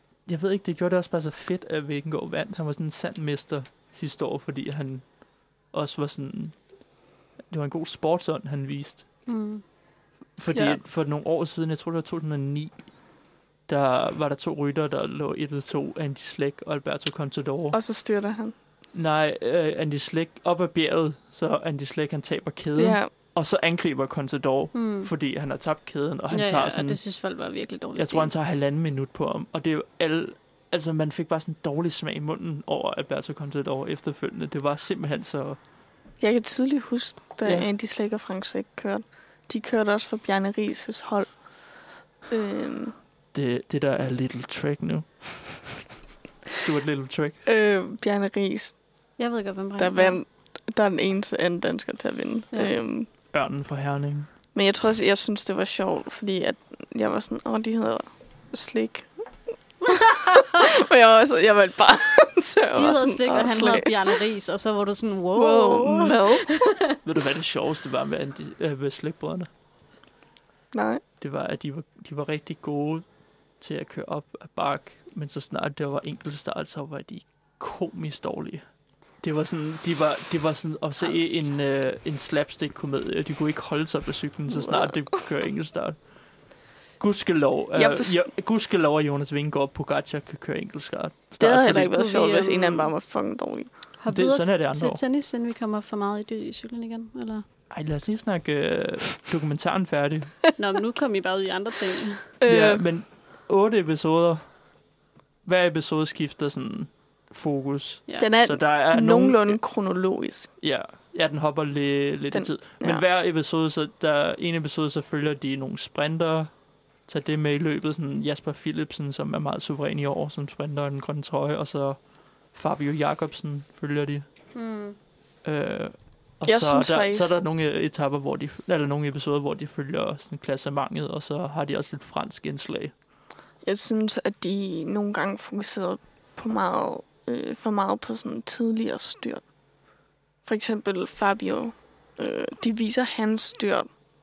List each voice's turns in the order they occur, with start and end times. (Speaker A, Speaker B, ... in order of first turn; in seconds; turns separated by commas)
Speaker A: 0.2-6.9, Speaker A: 7.5-9.3, Speaker B: 9.3-9.6, Speaker A: 10.4-17.8, Speaker C: 10.5-10.8, Speaker C: 17.7-18.6, Speaker A: 18.9-27.0, Speaker C: 22.8-23.1, Speaker B: 24.7-25.1, Speaker B: 26.3-28.3, Speaker A: 27.9-35.6, Speaker C: 36.2-43.0, Speaker A: 43.3-45.9, Speaker A: 46.5-47.4, Speaker C: 47.5-49.1, Speaker B: 49.2-50.2, Speaker C: 49.8-53.1, Speaker A: 53.3-54.3, Speaker C: 54.5-59.1, Speaker C: 59.9-64.2, Speaker B: 62.7-66.7, Speaker C: 65.3-66.6, Speaker A: 67.0-69.5, Speaker C: 70.7-71.0, Speaker A: 71.2-73.0, Speaker A: 73.6-78.7, Speaker A: 79.2-91.9, Speaker C: 84.5-85.0, Speaker C: 87.7-88.3, Speaker C: 91.4-93.7, Speaker B: 91.7-92.9, Speaker B: 94.0-97.5, Speaker A: 94.1-95.0, Speaker A: 97.7-100.4, Speaker B: 100.6-102.3, Speaker C: 102.4-102.8, Speaker A: 102.5-104.8, Speaker A: 105.4-109.6, Speaker C: 108.2-110.5, Speaker A: 110.6-124.3, Speaker C: 112.3-113.0, Speaker B: 124.5-125.0, Speaker A: 125.4-132.9, Speaker C: 126.4-127.4, Speaker C: 133.6-139.5, Speaker C: 140.4-143.9